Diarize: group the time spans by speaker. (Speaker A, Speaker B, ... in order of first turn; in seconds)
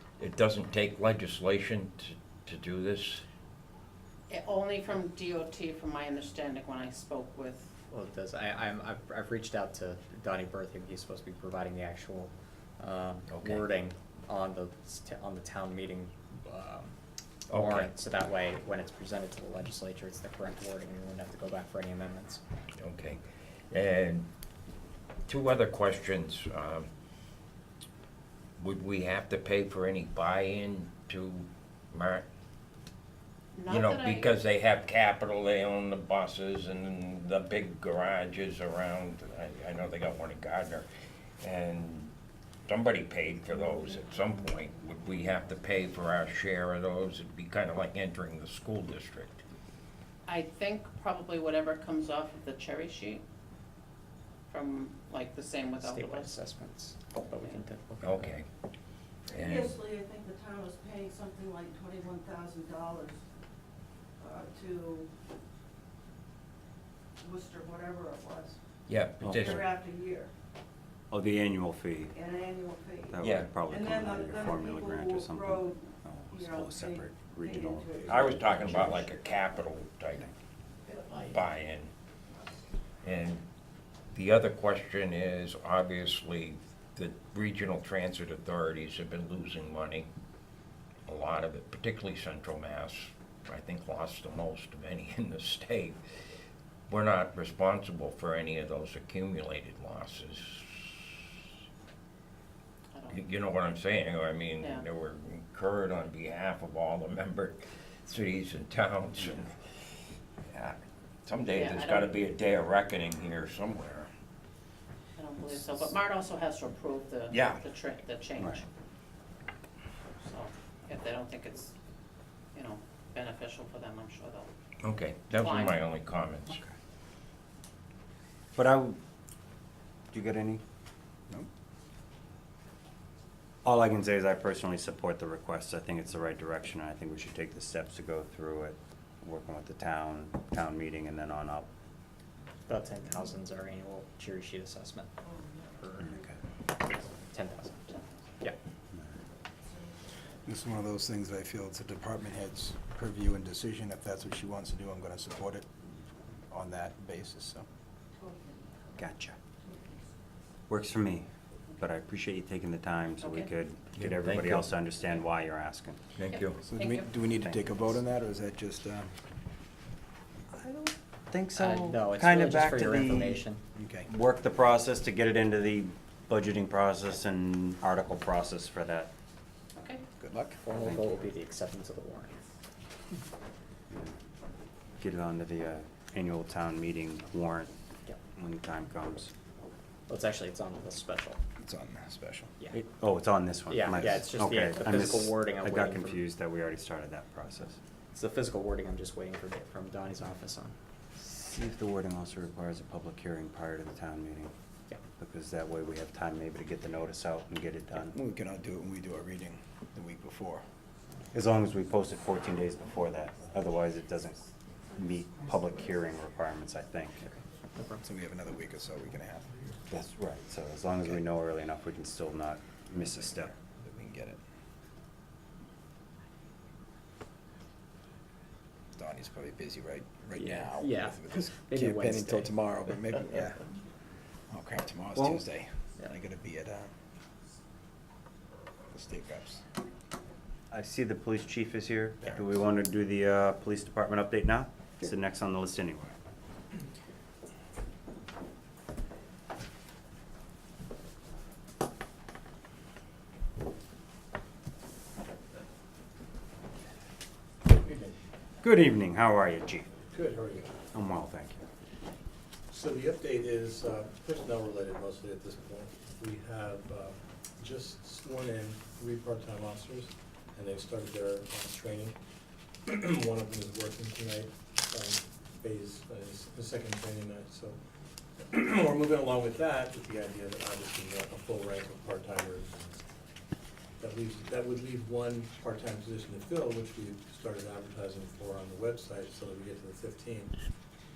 Speaker A: 0.2-3.2, 13.3-13.7, 17.5-17.9, 22.8-24.3, 25.3-26.9, 28.6-32.2, 33.7-40.9, 41.4-42.1, 42.7-49.4, 58.0-58.5, 59.3-59.8, 68.9-69.7, 73.2-73.5, 78.1-80.3, 81.2-81.9, 83.0-83.4, 84.1-90.1, 91.1-96.0, 96.9-101.2, 103.1-109.9, 110.5-114.1, 117.3-117.6, 124.8-126.6, 163.9-164.7, 166.1-166.6
Speaker B: 4.3-7.7, 33.5-34.3, 50.2-53.2, 54.5-56.3, 57.3-57.6, 102.9-103.2, 104.6-104.8, 111.5-112.1, 115.2-118.6, 120.2-121.7, 122.5-124.5, 125.4-125.8, 163.2-163.5, 166.3-167.1, 179.8-180.0
Speaker C: 7.9-16.9, 17.5-22.4, 55.8-58.3, 142.7-145.1, 145.8-146.0, 146.7-147.8, 171.6-173.6, 180.6-182.4, 190.1-191.4, 193.7-196.3, 198.1-200.7, 217.3-218.0, 230.4-232.9
Speaker D: 59.4-63.2, 64.2-65.1, 67.2-68.6, 69.5-70.3, 72.2-73.1, 73.7-75.8, 76.4-77.0, 77.6-79.1, 158.2-159.0, 159.6-160.0
Speaker E: 69.2-69.8, 71.1-72.2, 73.1-78.8, 128.5-129.0, 130.1-130.6, 133.6-141.7, 146.0-146.4, 159.0-159.4, 160.7-166.0, 167.3-167.8, 170.5-173.4, 174.1-179.1, 183.9-184.1, 185.0-187.7, 188.3-189.3, 192.7-197.8, 201.2-204.5, 205.1-208.1, 211.3-217.3, 219.9-223.5, 235.1-235.4, 240.7-246.2, 258.6-260.0, 260.9-261.6
Speaker F: 150.4-155.7, 156.5-157.7, 166.6-169.1, 173.7-174.1, 180.2-180.6, 191.6-192.5, 208.1-210.6, 218.0-219.6, 223.6-224.4, 228.9-233.7, 234.5-236.9, 238.9-239.6
Speaker G: 257.8-258.1, 260.1-260.7, 262.7-272.1, 272.9-277.8, 278.4-283.1, 284.0-290.5